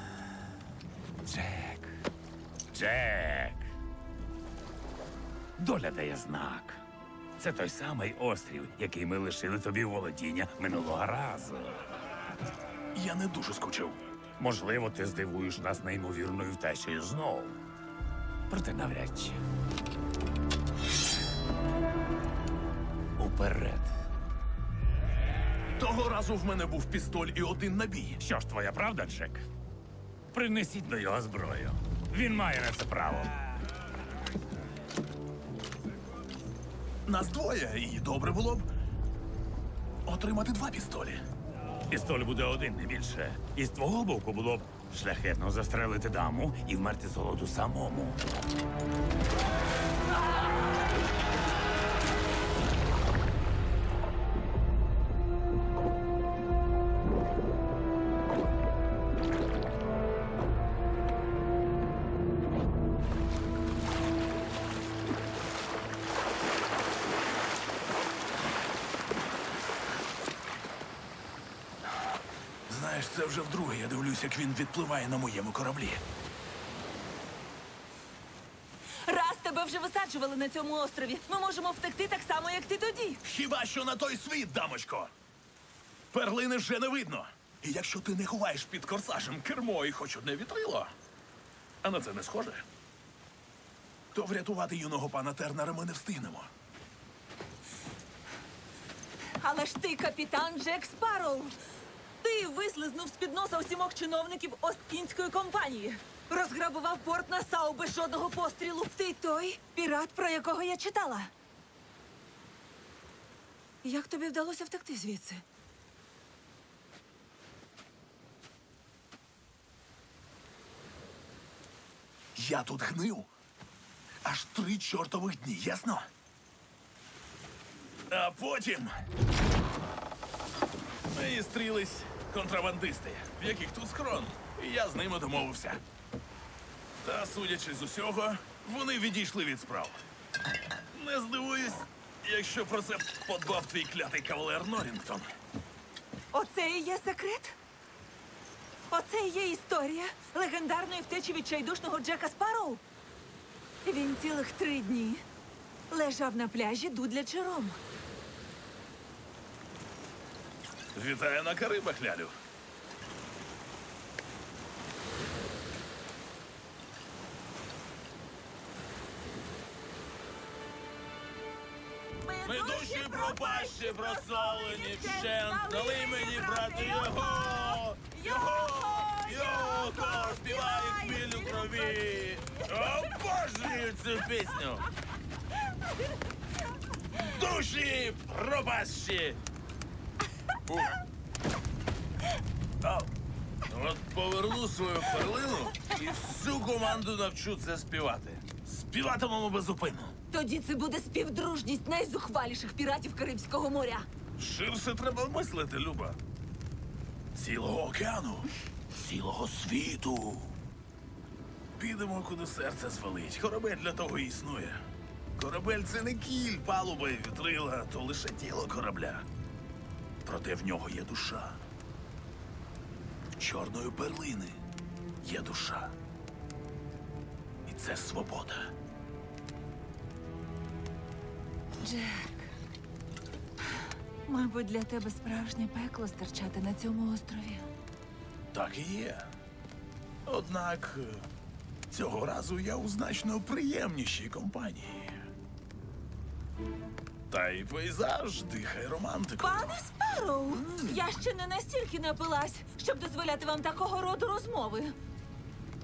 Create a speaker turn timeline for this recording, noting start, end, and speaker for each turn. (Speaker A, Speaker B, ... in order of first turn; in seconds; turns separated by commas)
Speaker A: 1.2-1.9, Speaker A: 2.7-3.6, Speaker A: 5.6-6.8, Speaker A: 7.4-11.8, Speaker B: 12.9-14.0, Speaker A: 14.4-17.6, Speaker A: 18.5-19.4, Speaker A: 23.2-23.9, Speaker B: 25.7-28.2, Speaker A: 28.2-29.4, Speaker A: 30.3-33.4, Speaker B: 37.0-38.7, Speaker B: 40.0-41.2, Speaker A: 41.9-48.2, Speaker B: 72.7-76.0, Speaker C: 79.0-83.2, Speaker B: 83.2-85.1, Speaker B: 86.1-90.9, Speaker B: 91.8-92.6, Speaker B: 94.1-96.5, Speaker C: 99.4-101.6, Speaker C: 102.2-111.3, Speaker C: 113.8-115.4, Speaker B: 122.3-123.3, Speaker B: 124.2-126.1, Speaker B: 128.1-128.9, Speaker B: 131.1-135.8, Speaker B: 137.0-140.0, Speaker B: 140.9-145.3, Speaker C: 146.3-147.6, Speaker C: 148.9-152.8, Speaker C: 153.8-155.2, Speaker C: 155.9-157.8, Speaker B: 160.9-162.3, Speaker C: 172.2-182.6, Speaker B: 172.4-184.9, Speaker B: 187.1-189.4, Speaker B: 190.7-190.9, Speaker B: 192.8-193.1, Speaker B: 193.7-200.1, Speaker C: 200.3-204.1, Speaker B: 204.4-206.2, Speaker B: 207.3-210.5, Speaker B: 211.8-214.8, Speaker B: 215.4-219.2, Speaker B: 220.2-221.6, Speaker B: 223.4-224.6, Speaker B: 225.2-225.9, Speaker B: 227.7-228.7, Speaker C: 231.8-232.5, Speaker C: 234.2-237.7, Speaker B: 238.5-239.3, Speaker B: 240.2-241.3, Speaker B: 241.9-245.2, Speaker B: 247.3-249.8, Speaker C: 249.4-254.9, Speaker B: 250.5-251.0